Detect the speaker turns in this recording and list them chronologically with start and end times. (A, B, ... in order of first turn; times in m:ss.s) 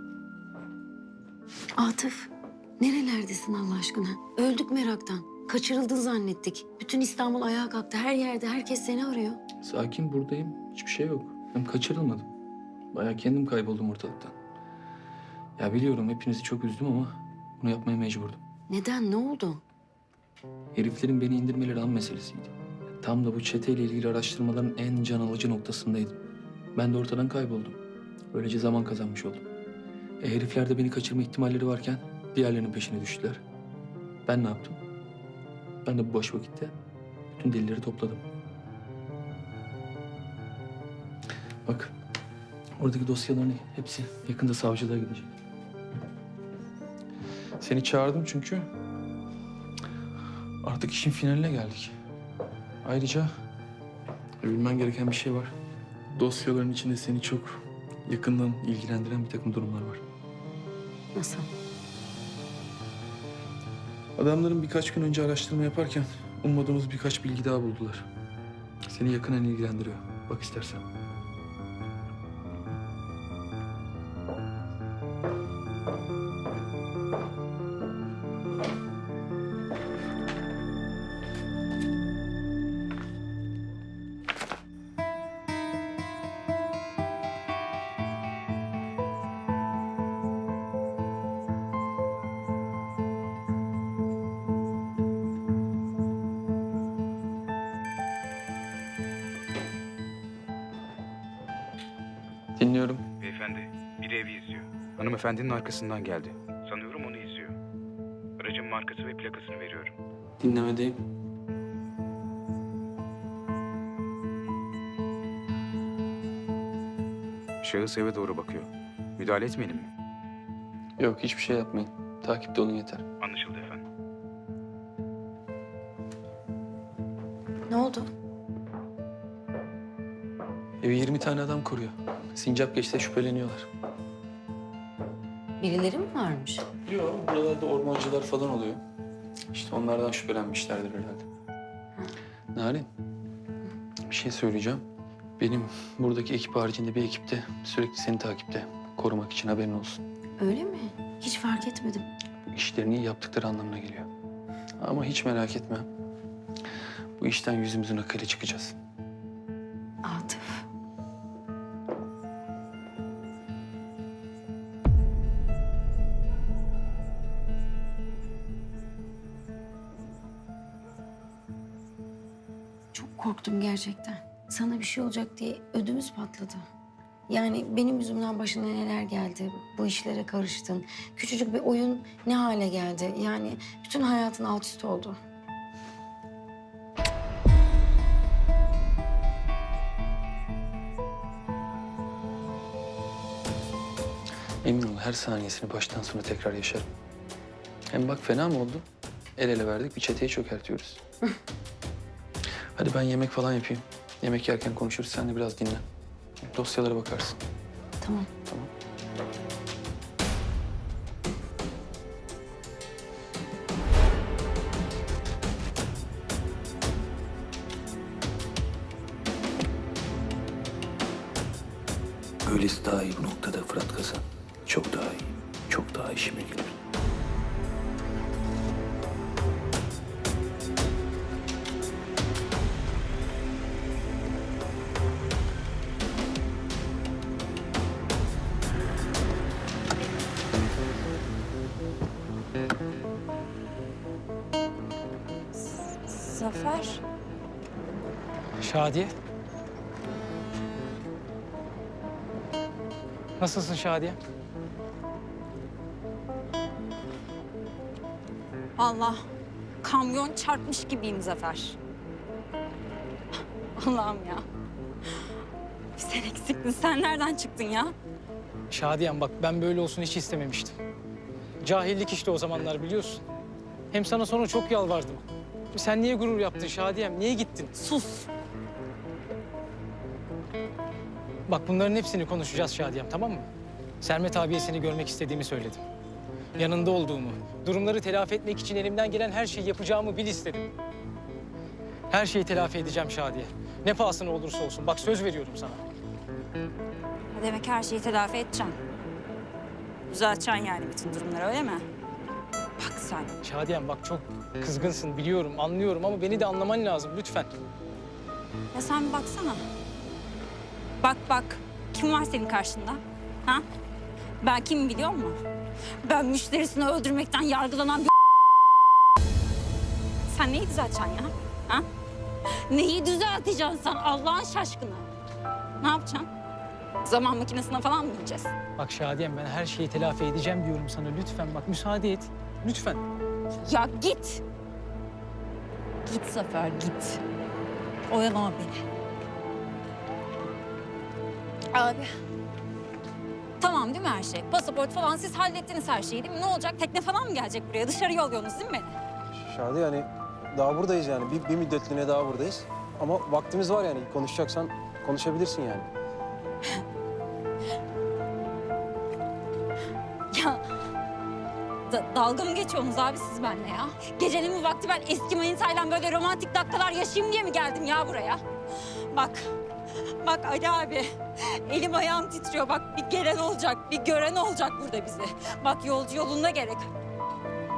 0:01.8-0:09.4 A
0:09.6-0:12.3 B
0:12.9-0:14.3 B
0:15.6-0:18.4 B
0:18.7-0:19.6 A
0:20.7-0:26.2 B
0:26.7-0:27.8 B
0:28.3-0:29.4 B
0:30.2-0:33.4 B
0:34.2-0:34.8 B
0:35.8-0:36.7 B
0:37.3-0:38.2 B
0:41.6-0:41.9 B
0:42.8-0:45.3 B
0:47.6-0:48.7 B
0:50.6-0:52.0 B
0:52.8-0:53.3 B
0:54.4-0:55.5 B
0:56.1-1:00.0 B
1:01.1-1:01.5 A
1:04.2-1:08.0 B
1:08.9-1:10.8 B
1:42.6-1:43.0 B
1:43.2-1:47.5 C
1:48.4-1:49.9 C
1:50.4-1:51.0 B
1:57.6-1:59.9 C
2:01.0-2:03.0 B
2:03.2-2:03.8 C
2:07.7-2:08.1 A
2:10.8-2:13.7 B
2:15.6-2:16.7 A
2:16.8-2:18.8 B
2:19.5-2:21.3 B
2:22.5-2:22.9 B
2:24.1-2:24.8 B
2:25.4-2:30.0 B
2:30.4-2:32.0 A
2:32.5-2:34.1 B
2:34.8-2:35.8 B
2:37.2-2:38.8 B
2:40.0-2:40.6 A
2:52.9-2:56.6 A
2:57.3-3:05.2 A
3:14.6-3:16.9 B
3:17.9-3:18.8 B
3:19.4-3:21.0 B
3:22.8-3:25.8 B
3:26.4-3:27.4 B
3:28.0-3:28.3 A
3:42.4-3:46.7 B
4:05.6-4:07.0 D
4:08.6-4:09.1 E
4:13.4-4:14.2 E
4:18.8-4:19.2 D
4:19.8-4:21.8 D
4:23.8-4:24.4 D
4:26.0-4:27.9 D
4:28.7-4:30.8 E
4:31.6-4:33.2 E
4:33.9-4:37.7 E
4:37.8-4:38.3 D
4:41.5-4:43.5 E
4:44.0-4:45.8 E
4:46.6-4:50.7 E
4:52.1-4:55.8 E
4:57.3-4:58.8 D
5:00.1-5:01.8 D
5:02.8-5:03.4 D
5:03.4-5:07.5 E
5:08.7-5:09.6 D
5:11.0-5:13.6 D
5:14.4-5:15.4 D
5:16.0-5:18.1 D
5:20.3-5:21.8 D
5:22.5-5:25.1 D
5:25.8-5:26.3 D
5:27.0-5:28.5 D
5:28.8-5:33.0 E
5:33.6-5:34.4 D
5:36.0-5:37.2 D
5:38.1-5:38.8 D
5:41.7-5:42.1 D
5:43.6-5:49.0 D
5:49.4-5:55.9 F
6:00.3-6:00.6 D
6:01.9-6:09.5 D
6:10.2-6:16.9 D